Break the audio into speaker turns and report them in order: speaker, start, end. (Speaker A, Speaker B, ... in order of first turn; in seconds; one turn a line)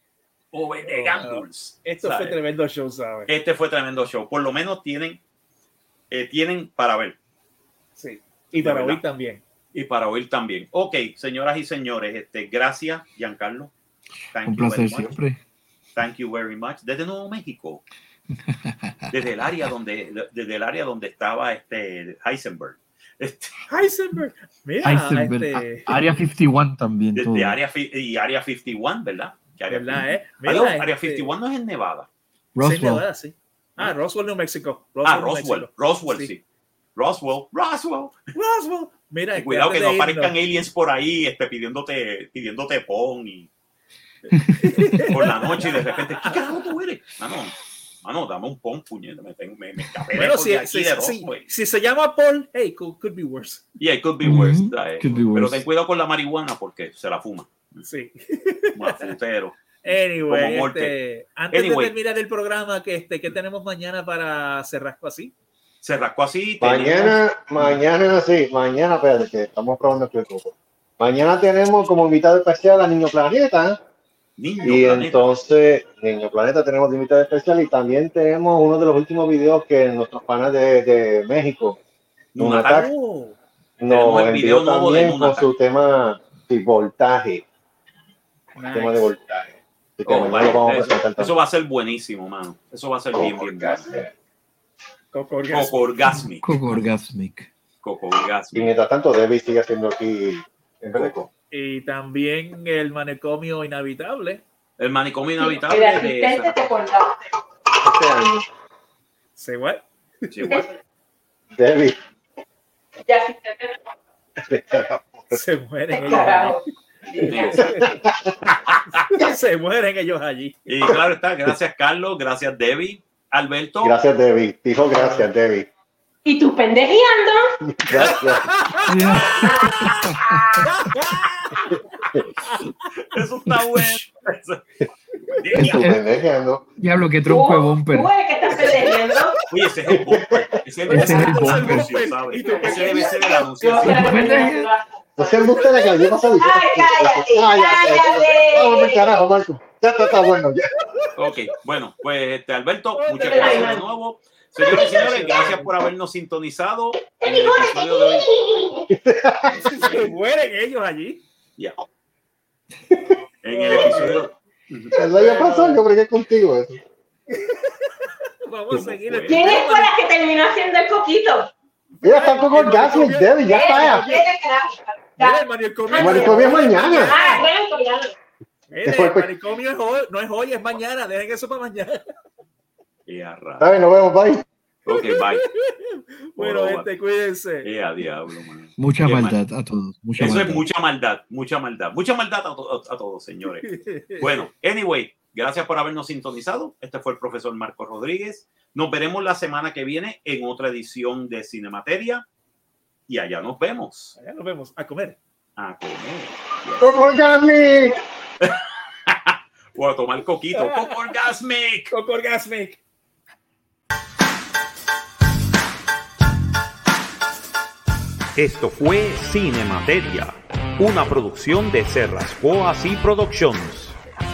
Speaker A: 0.5-2.4
Speaker B: 0.9-3.3
Speaker A: 3.3-5.2
Speaker A: 6.1-7.2
Speaker B: 8.0-9.4
Speaker A: 8.6-9.0
Speaker A: 9.7-13.7
Speaker A: 14.3-15.2
Speaker C: 14.4-15.4
Speaker A: 15.9-17.8
Speaker C: 18.3-19.1
Speaker A: 19.1-23.5
Speaker B: 23.7-25.9
Speaker C: 24.8-27.6
Speaker A: 27.1-32.1
Speaker B: 29.7-31.3
Speaker C: 32.5-33.0
Speaker B: 32.6-36.3
Speaker A: 35.0-36.4
Speaker A: 37.0-38.1
Speaker B: 38.3-40.3
Speaker A: 39.4-43.5
Speaker A: 44.2-51.5
Speaker B: 44.6-46.4
Speaker B: 50.1-53.6
Speaker A: 53.8-57.8
Speaker C: 54.2-55.6
Speaker B: 57.8-59.1
Speaker A: 58.7-60.9
Speaker B: 59.8-65.3
Speaker A: 61.5-61.9
Speaker A: 65.8-67.8
Speaker D: 66.6-73.8
Speaker A: 74.4-75.3
Speaker D: 74.6-81.8
Speaker A: 82.3-82.9
Speaker D: 82.4-82.9
Speaker B: 82.8-83.4
Speaker D: 83.8-87.4
Speaker A: 83.9-85.5
Speaker B: 88.5-89.1
Speaker D: 88.7-91.3
Speaker A: 90.0-93.9
Speaker D: 93.1-94.1
Speaker B: 95.1-95.8
Speaker A: 95.5-96.5
Speaker C: 96.1-97.5
Speaker A: 97.8-98.7
Speaker D: 98.5-101.3
Speaker B: 101.5-104.4
Speaker A: 104.8-106.5
Speaker E: 105.4-107.2
Speaker D: 107.8-108.4
Speaker B: 109.4-110.3
Speaker A: 110.3-110.7
Speaker D: 111.5-112.0
Speaker E: 113.0-113.7
Speaker D: 114.4-115.3
Speaker B: 115.3-116.6
Speaker E: 115.9-117.8
Speaker B: 117.2-120.6
Speaker A: 117.3-117.6
Speaker D: 117.6-118.3
Speaker A: 118.7-119.1
Speaker A: 120.7-124.0
Speaker D: 120.8-121.5
Speaker D: 123.8-125.7
Speaker B: 124.9-125.2
Speaker E: 126.2-127.5
Speaker D: 127.6-128.5
Speaker B: 127.9-129.9
Speaker C: 128.9-130.6
Speaker E: 129.4-130.7
Speaker B: 130.6-131.7
Speaker B: 132.4-132.7
Speaker A: 133.0-134.6
Speaker C: 133.5-134.0
Speaker A: 135.3-136.0
Speaker C: 135.5-136.0
Speaker D: 135.6-136.6
Speaker C: 136.8-138.1
Speaker E: 137.2-139.4
Speaker A: 139.5-144.2
Speaker D: 139.9-140.4
Speaker C: 140.9-141.9
Speaker B: 140.9-143.8
Speaker E: 142.4-149.1
Speaker C: 143.8-144.7
Speaker D: 145.2-150.6
Speaker B: 150.9-151.4
Speaker A: 151.2-158.3
Speaker B: 153.0-153.8
Speaker E: 153.1-153.8
Speaker E: 154.7-155.1
Speaker B: 154.7-155.7
Speaker E: 157.2-158.9
Speaker D: 158.9-159.8
Speaker B: 159.6-161.2
Speaker A: 163.4-164.9
Speaker B: 163.5-164.2
Speaker D: 164.9-166.8
Speaker B: 165.1-165.8
Speaker B: 167.3-170.0
Speaker A: 168.7-169.5
Speaker E: 169.3-171.5
Speaker B: 172.0-174.2
Speaker D: 172.0-174.1
Speaker E: 173.4-178.1
Speaker B: 175.2-177.5
Speaker D: 175.9-177.1
Speaker B: 178.7-182.1
Speaker D: 178.8-179.3
Speaker A: 183.1-183.7
Speaker D: 183.6-184.4
Speaker A: 184.8-185.5
Speaker B: 184.9-187.7
Speaker A: 186.4-186.9
Speaker A: 187.6-189.4
Speaker C: 188.8-190.6
Speaker A: 190.2-202.2
Speaker B: 193.6-194.4
Speaker A: 203.1-204.2
Speaker B: 204.2-205.2
Speaker A: 205.6-207.0
Speaker D: 206.8-208.0
Speaker A: 208.4-211.9
Speaker B: 210.6-210.9
Speaker B: 211.9-212.8
Speaker A: 218.3-223.9